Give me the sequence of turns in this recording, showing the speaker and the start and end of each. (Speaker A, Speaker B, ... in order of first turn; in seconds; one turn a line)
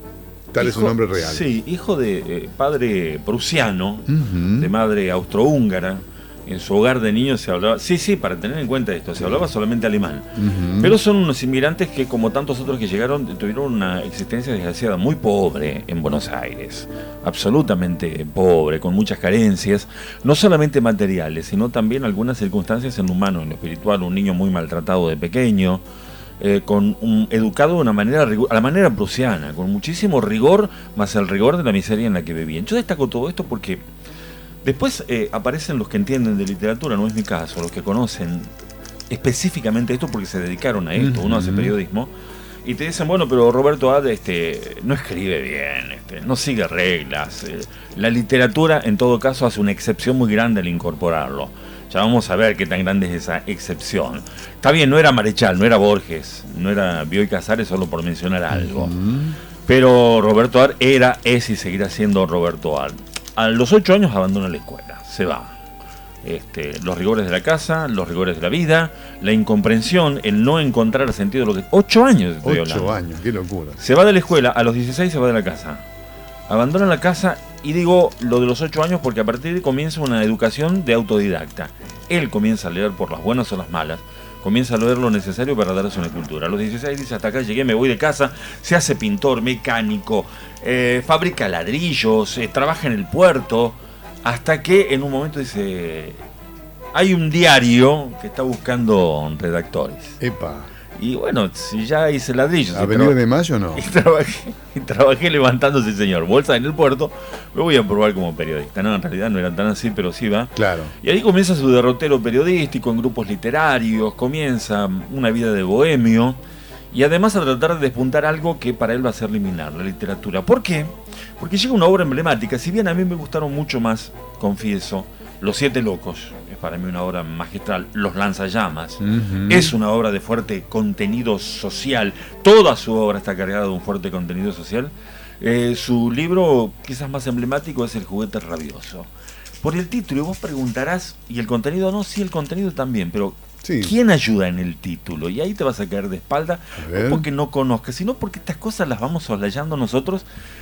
Speaker A: 0.5-1.5
Speaker B: 0.6-25.8
Speaker A: 4.1-4.7
Speaker A: 10.3-10.9
Speaker B: 26.4-33.8
Speaker B: 34.6-38.5
Speaker B: 39.1-42.1
Speaker A: 41.0-41.7
Speaker B: 42.6-59.0
Speaker A: 58.5-59.4
Speaker B: 59.6-65.5
Speaker B: 66.2-73.0
Speaker A: 72.4-73.8
Speaker B: 73.8-75.8
Speaker B: 76.5-96.2
Speaker B: 96.9-100.2
Speaker A: 100.2-100.7
Speaker B: 100.9-103.2
Speaker A: 102.7-103.8
Speaker B: 103.8-116.4
Speaker A: 110.5-110.9
Speaker B: 116.9-139.1
Speaker A: 129.0-129.7
Speaker B: 139.6-150.2
Speaker A: 143.6-143.9
Speaker A: 146.8-147.2